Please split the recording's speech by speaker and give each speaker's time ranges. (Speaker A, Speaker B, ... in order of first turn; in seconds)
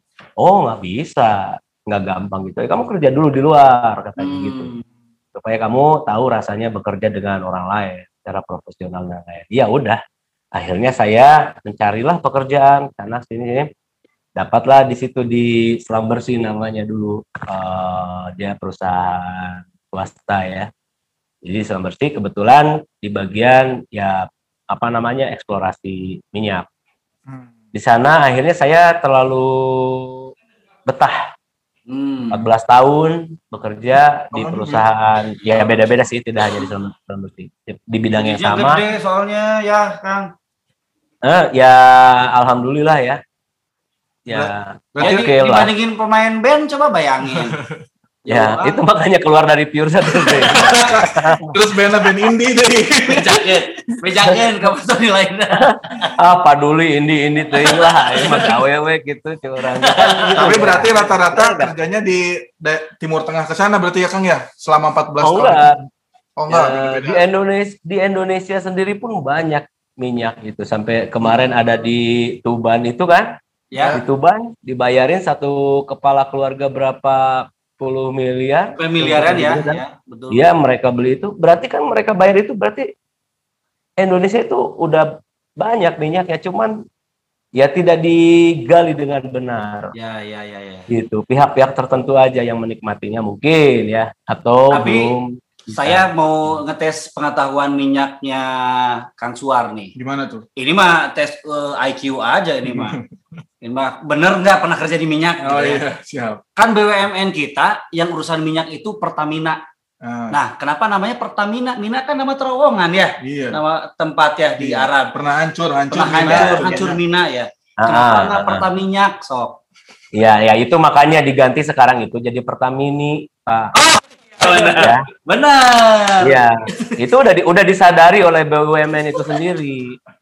Speaker A: 0.4-4.7, 5.3-10.0, 10.5-13.7, 14.4-20.7, 21.4-26.7, 27.7-30.3, 30.9-31.2, 32.3-38.8, 41.2-43.2, 44.3-45.7, 48.3-51.5, 55.6-61.7, 65.2-65.8, 66.5-73.3, 73.9-82.9, 84.0-85.1, 85.6-86.8, 87.5-89.9, 90.9-96.0, 116.3-116.9, 117.8-118.6, 120.1-123.7, 124.7-125.0, 126.2-129.9
Speaker B: 4.2-4.8, 31.9-32.5, 38.1-40.3, 45.0-47.6, 48.2-48.8, 50.2-51.1, 53.0-56.1, 57.5-58.5, 59.8-60.9, 78.7-80.4, 89.9-90.9, 94.7-95.1, 95.7-99.9, 100.6-103.0, 103.6-105.8, 106.5-109.6, 110.3-115.1, 115.9-119.6, 123.8-127.0
Speaker C: 34.3-34.8, 44.3-45.3, 50.6-53.4, 60.2-65.7, 66.4-67.2, 73.8-74.0, 100.0-100.4, 102.7-103.0, 105.4-106.4, 110.0-110.4, 113.2-113.6, 114.6-117.0